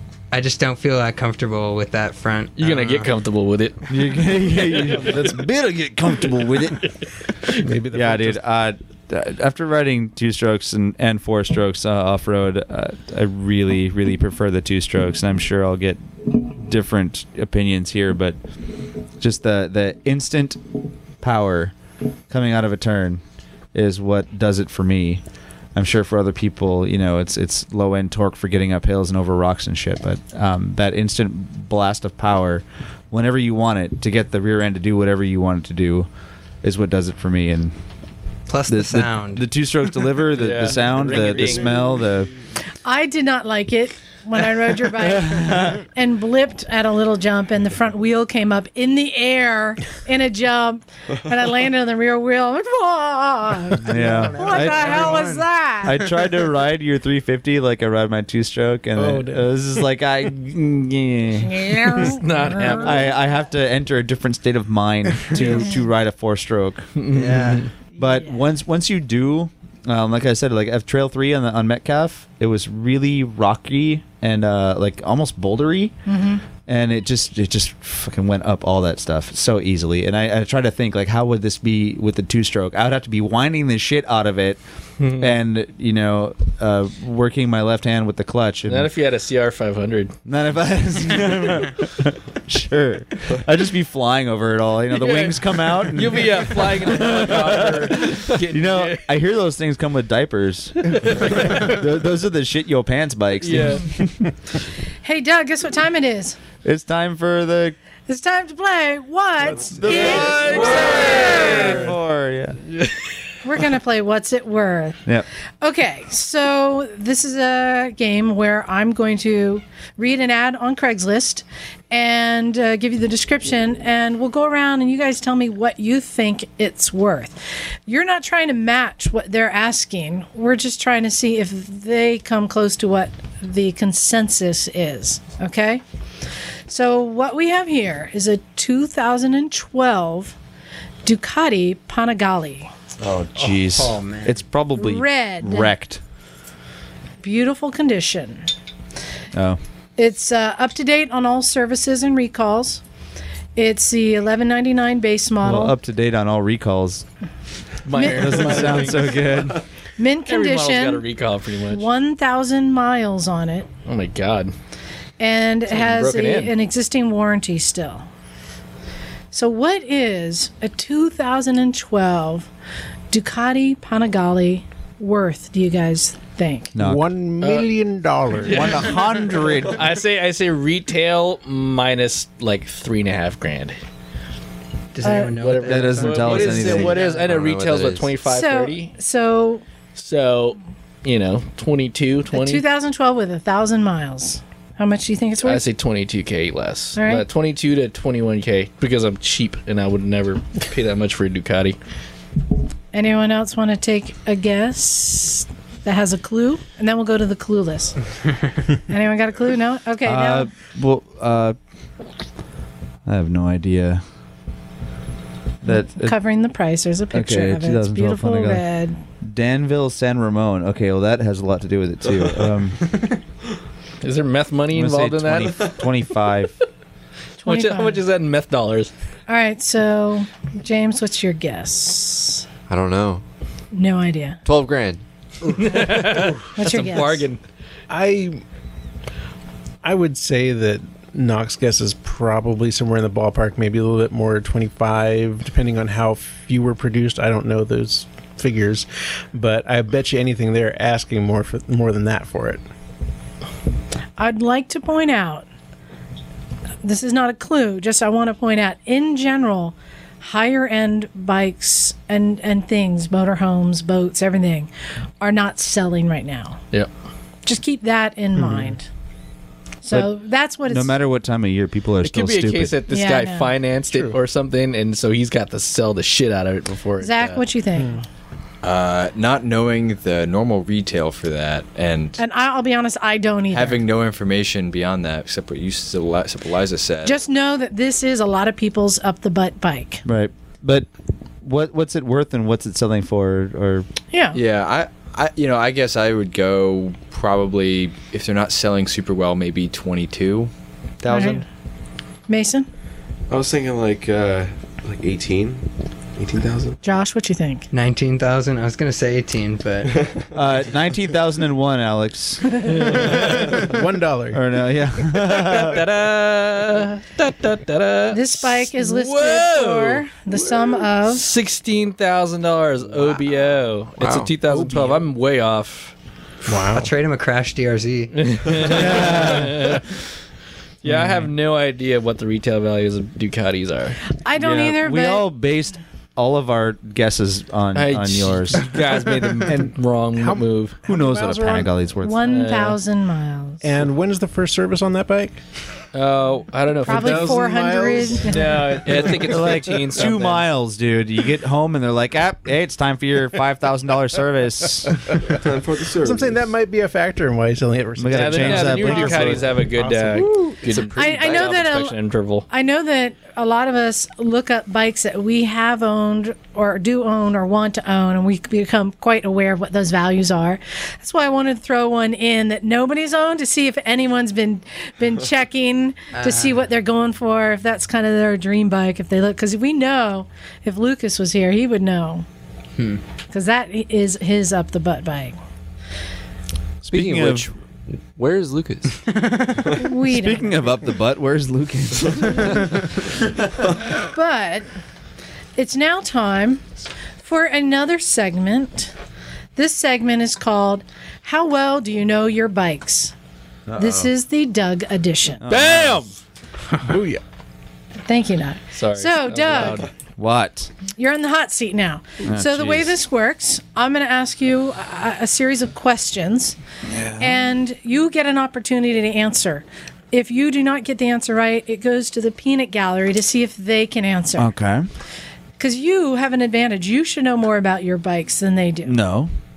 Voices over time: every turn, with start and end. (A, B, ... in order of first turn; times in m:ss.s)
0:00.3-0:03.1 A
0:02.6-0:03.8 B
0:03.9-0:06.9 C
0:07.6-0:08.4 D
0:07.9-0:18.4 C
0:19.2-0:20.6 C
0:21.2-0:21.7 C
0:22.3-0:23.2 C
0:23.7-0:25.2 C
0:25.7-0:36.1 C
0:36.6-0:37.7 C
0:38.5-0:39.4 A
0:38.7-0:42.3 C
0:40.4-0:41.8 B
0:42.8-0:56.0 E
0:45.0-0:45.8 C
0:53.8-0:55.1 C
0:54.2-0:55.5 A
0:55.8-1:02.2 C
0:59.0-0:59.5 D
1:01.5-1:02.9 E
1:02.2-1:03.0 B
1:02.8-1:06.9 C
1:05.3-1:05.7 E
1:07.0-1:07.7 B
1:07.1-1:07.7 A
1:08.0-1:15.9 C
1:08.0-1:08.3 E
1:16.1-1:16.4 E
1:16.7-1:24.6 C
1:25.0-1:25.4 B
1:25.2-1:28.9 C
1:28.7-1:30.1 B
1:30.2-1:44.3 C
1:34.9-1:39.1 B
1:40.9-1:41.7 B
1:43.4-1:43.8 B
1:45.0-1:46.4 E
1:46.6-1:47.8 C
1:48.1-1:51.8 E
1:49.7-1:52.6 C
1:49.9-1:51.6 B
1:53.4-1:55.0 E
1:55.6-2:15.8 E
2:16.7-2:20.4 E
2:21.0-2:22.7 E
2:23.0-2:26.0 C
2:23.4-2:24.4 A
2:24.8-2:25.7 E
2:27.2-2:28.5 E
2:29.3-2:29.6 C
2:30.0-2:32.8 E
2:33.6-2:35.8 E
2:35.4-2:37.0 C
2:37.8-2:39.4 B
2:37.9-2:39.6 C
2:37.9-2:38.6 E
2:40.0-2:41.0 E
2:40.3-2:41.8 B
2:41.7-2:43.7 E
2:43.8-2:44.5 B
2:45.2-2:48.0 E
2:45.7-2:46.5 B
2:49.3-2:52.5 E
2:53.1-2:56.7 E
2:56.7-2:57.1 C
2:56.8-2:58.8 D
2:57.4-2:57.7 B
2:58.4-3:03.8 B
2:58.4-2:59.8 C
3:04.9-3:07.2 A
3:05.0-3:05.3 E
3:05.2-3:08.9 B
3:05.6-3:07.0 C
3:06.7-3:08.1 F
3:08.2-3:09.6 E
3:10.0-3:12.6 B
3:12.3-3:15.6 E
3:15.4-3:21.8 B
3:16.9-3:17.2 E
3:22.9-3:28.0 E
3:28.9-3:30.5 E
3:30.0-3:31.6 C
3:33.0-3:34.0 C
3:35.6-3:36.2 C
3:35.6-3:39.0 E
3:37.1-3:38.6 C
3:39.2-3:42.9 C
3:44.0-3:45.9 B
3:44.7-3:46.5 C
3:47.4-3:48.0 E
3:47.4-3:48.9 B
3:49.3-3:52.4 E
3:52.7-3:53.2 F
3:53.7-3:54.4 E
3:54.4-3:55.0 F
3:55.6-3:57.4 B
3:56.6-3:57.3 E
3:57.9-3:58.4 D
3:59.8-4:12.6 D
4:14.2-4:15.4 E
4:16.8-4:24.7 E
4:25.2-4:26.6 E
4:27.4-4:28.8 E
4:28.4-4:28.8 D
4:29.8-4:31.0 E
4:30.7-4:32.8 C
4:32.0-4:37.4 B
4:32.9-4:33.5 E
4:33.9-4:34.2 D
4:37.0-4:38.0 E
4:38.6-4:42.2 G
4:42.2-4:43.8 E
4:43.5-4:47.2 G
4:47.0-4:50.0 E
4:50.0-4:50.9 C
4:51.4-4:53.9 C
4:54.1-4:54.4 E
4:54.3-5:00.5 G
5:01.0-5:01.3 G
5:01.1-5:01.4 E
5:02.3-5:02.7 E
5:03.3-5:06.8 H
5:06.8-5:07.7 E
5:07.7-5:09.9 A
5:09.9-5:10.3 H
5:10.3-5:13.6 C
5:12.7-5:13.6 B
5:13.6-5:14.4 D
5:14.3-5:15.8 C
5:15.3-5:20.0 B
5:18.1-5:21.3 E
5:21.0-5:25.9 B
5:24.0-5:24.3 F
5:24.5-5:24.9 D
5:26.4-5:26.9 D
5:26.7-5:28.3 A
5:28.2-5:29.8 B
5:28.6-5:29.8 C
5:30.8-5:34.0 B
5:30.9-5:31.2 C
5:34.2-5:35.3 E
5:34.4-5:38.7 C
5:37.7-5:40.8 B
5:39.5-5:41.7 D
5:40.8-5:42.2 C
5:42.0-5:43.6 E
5:42.2-5:42.8 B
5:43.6-5:45.4 D
5:45.9-5:47.5 B
5:46.8-5:48.6 E
5:46.8-5:48.7 D
5:48.2-5:50.4 B
5:49.2-5:55.0 C
5:55.2-5:56.5 H
5:56.0-6:00.5 D
5:58.0-5:59.6 C
5:58.1-6:02.4 B
6:00.4-6:02.0 E
6:00.7-6:01.5 F
6:02.5-6:22.2 E
6:16.1-6:16.6 A
6:23.3-6:25.4 E
6:26.8-6:29.1 F
6:26.9-6:27.5 C
6:29.1-6:29.7 A
6:29.7-6:30.5 E
6:30.0-6:32.6 C
6:34.0-6:34.7 E
6:35.6-6:36.6 E
6:37.2-6:38.9 E
6:39.6-6:43.1 E
6:43.8-6:45.4 E
6:45.4-6:46.1 C
6:45.5-6:46.2 B
6:46.8-6:47.2 D
6:48.1-6:49.8 E
6:48.8-6:49.9 B
6:50.2-6:50.7 C
6:50.9-6:56.6 E
6:52.2-6:53.0 C
6:57.2-7:04.5 E
7:04.4-7:04.8 C
7:05.6-7:09.0 E
7:08.8-7:09.3 C